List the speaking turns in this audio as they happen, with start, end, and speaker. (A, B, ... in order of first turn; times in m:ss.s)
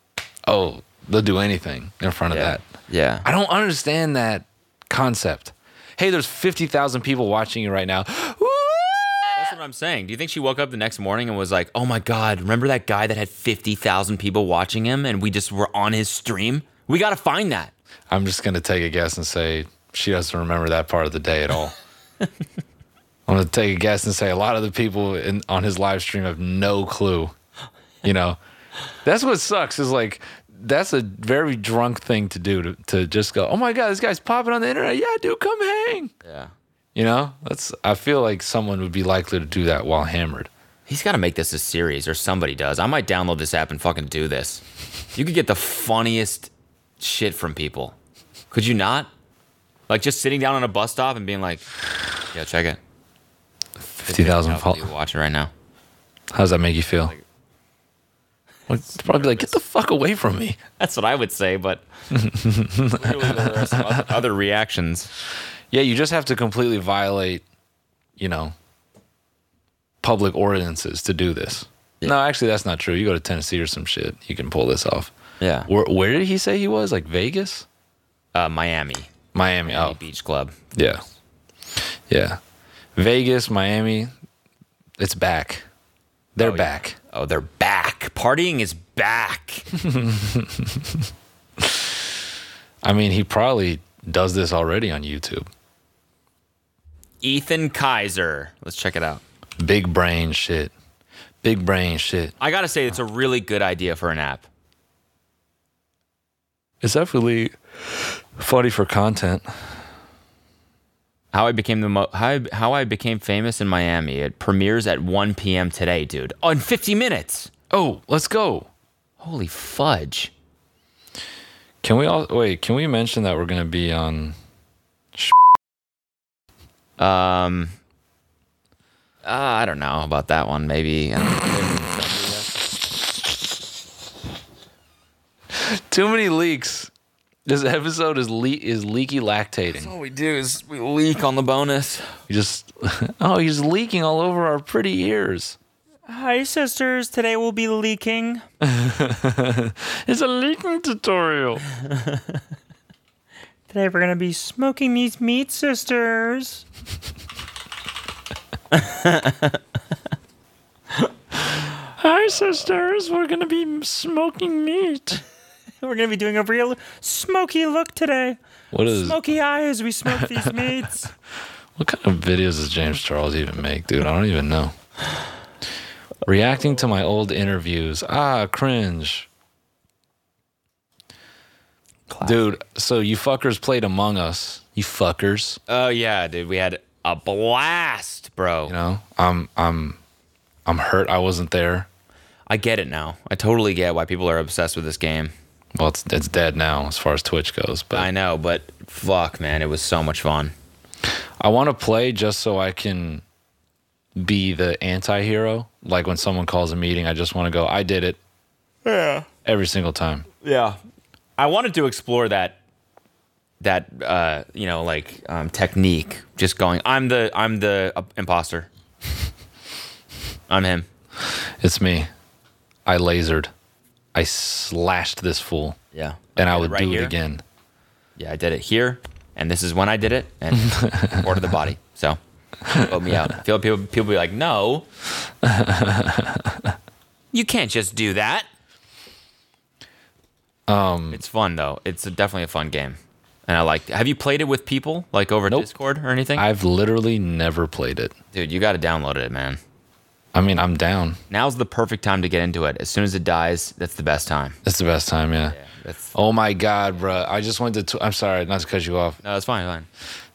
0:00.5-0:02.6 A
0:02.3-0:03.3 B
0:03.2-0:09.6 A
0:09.3-0:17.7 B
0:18.1-0:21.7 A
0:23.3-0:27.3 A
0:28.0-0:28.4 A
0:29.0-0:36.1 A
0:36.2-0:36.5 B
0:36.9-0:40.5 A
0:40.9-0:44.6 B
0:45.1-0:48.0 B
0:48.5-0:49.1 B
0:49.9-0:51.7 B
0:52.3-0:52.8 B
0:53.8-0:54.9 A
0:54.0-0:55.5 B
0:56.3-0:57.1 A
0:58.7-1:00.6 A
0:58.8-0:59.5 B
1:00.8-1:01.8 B
1:02.1-1:04.1 A
1:02.9-1:05.1 B
1:05.7-1:07.4 A
1:08.2-1:08.5 A
1:10.0-1:15.1 A
1:15.4-1:15.7 B
1:15.7-1:17.6 A
1:18.3-1:19.1 B
1:19.3-1:20.0 A
1:19.6-1:20.6 B
1:20.7-1:21.0 A
1:21.8-1:22.4 A
1:23.0-1:24.1 A
1:25.0-1:25.6 A
1:26.4-1:27.0 A
1:26.4-1:29.7 B
1:29.8-1:31.1 A
1:31.6-1:32.0 A
1:32.8-1:35.5 A
1:37.2-1:39.2 B
1:39.6-1:40.7 A
1:41.4-1:42.3 A
1:42.4-1:44.5 B
1:46.8-1:49.5 A
1:51.3-1:57.5 B
1:57.7-1:58.7 A
1:59.2-2:00.3 B
2:01.8-2:04.4 A
2:07.0-2:07.8 B
2:09.2-2:12.6 B
2:15.5-2:16.9 A
2:17.4-2:19.9 A
2:19.7-2:22.1 B
2:22.3-2:25.6 A
2:26.1-2:28.2 C
2:28.1-2:28.4 B
2:28.6-2:31.6 A
2:33.7-2:36.6 C
2:38.7-2:39.6 B
2:42.0-2:45.2 A
2:45.8-2:51.1 C
2:48.7-2:49.2 A
2:50.0-2:50.6 A
2:51.8-2:54.7 A
2:56.2-2:59.3 A
3:02.1-3:02.6 B
3:02.2-3:05.6 A
3:05.7-3:08.7 B
3:08.6-3:10.0 A
3:10.6-3:11.9 A
3:12.5-3:15.3 B
3:15.7-3:18.1 A
3:17.9-3:20.5 B
3:21.4-3:23.2 A
3:24.2-3:28.2 A
3:28.8-3:29.2 B
3:29.4-3:30.2 A
3:30.4-3:30.8 B
3:31.4-3:32.6 B
3:33.6-3:38.7 B
3:40.5-3:40.9 B
3:41.3-3:42.1 A
3:42.8-3:43.5 A
3:44.1-3:45.8 A
3:45.9-3:47.1 B
3:46.4-3:47.4 A
3:48.2-3:52.2 B
3:50.5-3:51.3 A
3:52.7-3:54.8 B
3:55.4-3:56.7 A
3:57.3-3:58.5 B
4:00.7-4:01.2 A
4:01.1-4:06.4 B
4:06.3-4:08.1 A
4:08.3-4:09.6 B
4:10.3-4:11.2 A
4:11.3-4:14.6 B
4:14.6-4:15.6 A
4:15.5-4:16.1 B
4:16.1-4:19.2 A
4:19.2-4:19.9 B